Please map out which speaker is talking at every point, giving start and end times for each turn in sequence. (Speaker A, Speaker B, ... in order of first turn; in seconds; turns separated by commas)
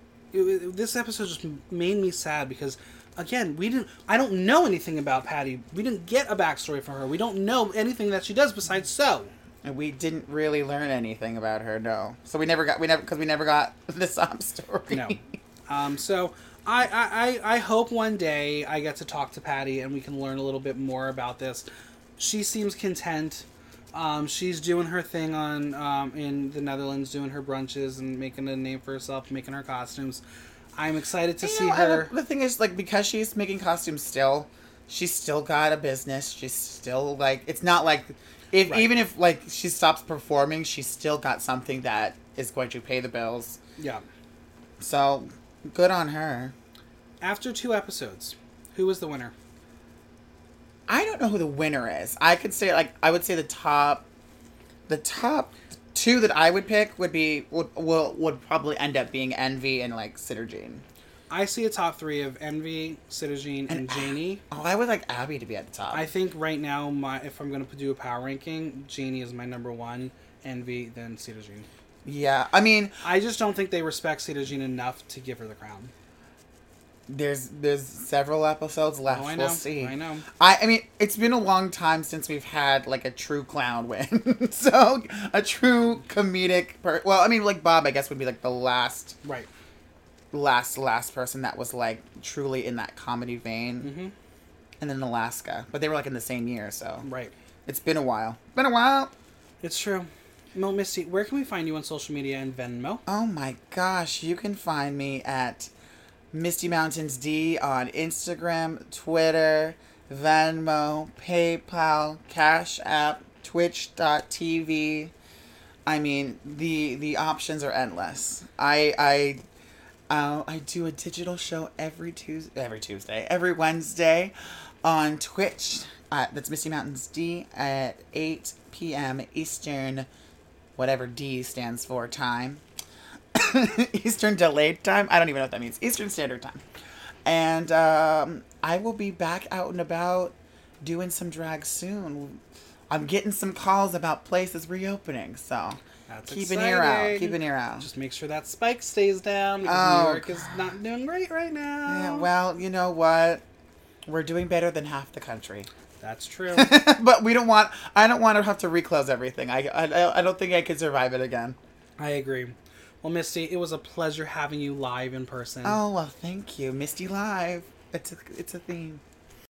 Speaker A: 0.3-9.3, Speaker B: 9.6-15.2, Speaker A: 14.9-21.6, Speaker A: 22.2-30.2, Speaker A: 30.8-32.1, Speaker B: 31.4-43.6, Speaker A: 43.8-44.0, Speaker B: 44.8-46.5, Speaker A: 47.2-49.3, Speaker B: 50.9-54.1, Speaker B: 54.9-60.8, Speaker A: 61.3-64.4, Speaker B: 63.7-66.1, Speaker A: 65.9-71.7, Speaker B: 72.0-73.0, Speaker A: 73.0-75.9, Speaker B: 77.1-89.2, Speaker A: 79.1-80.3, Speaker B: 90.3-93.9, Speaker A: 93.8-94.1, Speaker B: 94.8-97.0, Speaker A: 97.0-97.3, Speaker B: 97.7-99.1, Speaker A: 99.6-103.0, Speaker B: 103.1-105.7, Speaker B: 106.3-115.1, Speaker B: 115.9-119.4, Speaker B: 120.1-130.1, Speaker B: 130.8-132.6, Speaker B: 133.3-136.6, Speaker B: 137.2-147.9, Speaker A: 146.1-152.3, Speaker B: 149.7-150.3, Speaker B: 151.9-153.4, Speaker B: 154.1-155.7, Speaker A: 156.0-156.8, Speaker B: 156.5-161.6, Speaker A: 162.0-165.8, Speaker B: 165.7-169.0